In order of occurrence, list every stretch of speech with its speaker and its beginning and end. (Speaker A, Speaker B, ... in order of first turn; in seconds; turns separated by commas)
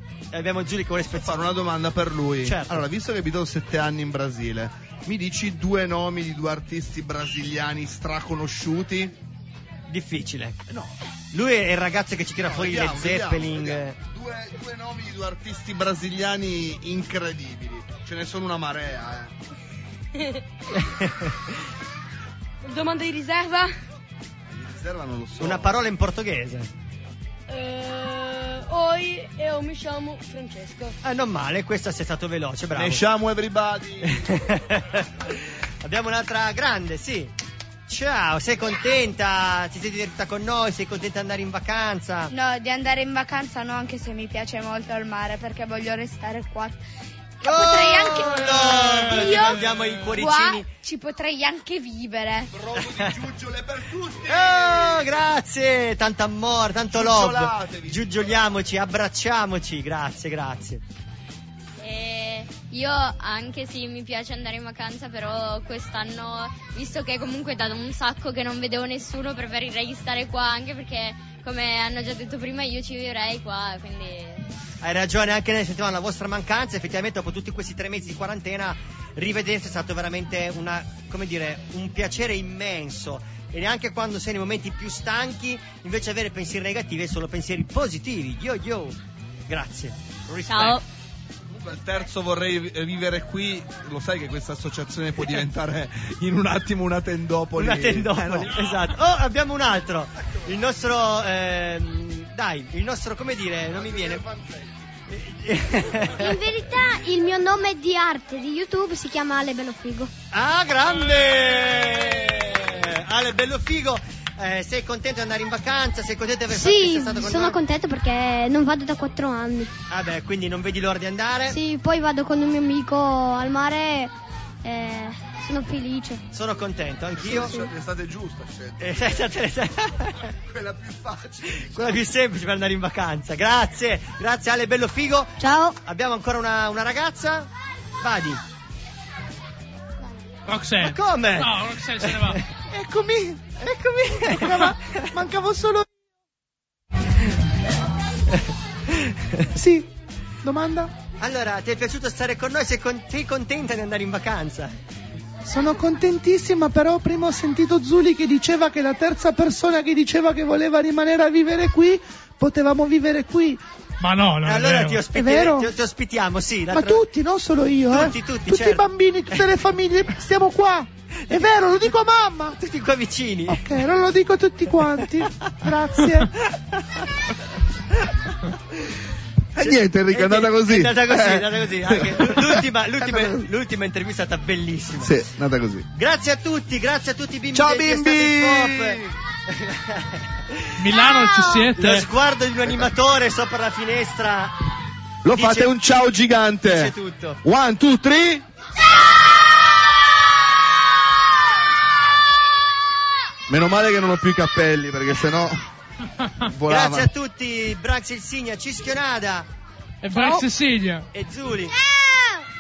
Speaker A: 0.3-1.4, Speaker B: 1.1-9.1, Speaker A: 2.4-2.8, Speaker A: 9.9-10.6, Speaker B: 10.7-10.9, Speaker A: 11.3-14.0, Speaker B: 12.4-19.3, Speaker A: 20.8-21.3, Speaker C: 22.6-23.7, Speaker B: 24.5-25.7, Speaker A: 25.4-26.7, Speaker C: 27.5-30.9, Speaker A: 31.0-33.0, Speaker B: 32.7-34.3, Speaker A: 34.0-37.3, Speaker A: 37.9-42.3, Speaker D: 42.3-46.8, Speaker D: 47.4-52.5, Speaker A: 47.4-50.7, Speaker E: 48.5-49.4, Speaker B: 52.5-55.1, Speaker A: 54.3-60.8, Speaker B: 56.9-58.1, Speaker F: 61.8-74.5, Speaker A: 74.8-89.0, Speaker A: 89.5-90.8, Speaker F: 90.5-90.8, Speaker B: 91.5-98.6, Speaker A: 97.6-104.2, Speaker B: 103.7-104.8, Speaker A: 105.1-106.4, Speaker G: 106.2-110.1, Speaker A: 110.3-117.6, Speaker G: 116.5-119.7, Speaker A: 119.9-121.6, Speaker G: 121.5-124.1, Speaker G: 124.6-126.2, Speaker A: 126.3-127.6, Speaker B: 127.2-129.2, Speaker G: 127.3-127.7, Speaker A: 128.8-130.2, Speaker B: 130.5-132.0, Speaker A: 131.5-137.5, Speaker G: 135.4-135.8, Speaker A: 138.0-138.4, Speaker E: 140.5-142.4, Speaker A: 140.8-142.4, Speaker H: 142.7-145.9, Speaker A: 144.2-145.0, Speaker A: 148.9-149.4, Speaker H: 149.6-149.9, Speaker H: 150.4-150.9, Speaker A: 151.2-154.8, Speaker H: 155.4-163.6, Speaker E: 164.0-165.1, Speaker A: 164.4-167.0, Speaker H: 165.2-165.7, Speaker H: 166.7-172.6, Speaker A: 167.9-169.5, Speaker A: 172.6-173.7, Speaker H: 173.5-176.3, Speaker A: 176.5-177.0, Speaker B: 179.6-183.4, Speaker A: 179.6-185.1, Speaker B: 185.0-185.9, Speaker A: 185.9-194.6, Speaker B: 187.5-189.1, Speaker E: 190.8-192.1, Speaker B: 195.2-198.5, Speaker A: 195.3-195.8, Speaker A: 196.6-197.4, Speaker B: 203.5-205.7, Speaker B: 206.4-207.1, Speaker A: 206.7-209.5, Speaker E: 210.0-211.1, Speaker A: 210.2-210.4, Speaker A: 211.1-211.7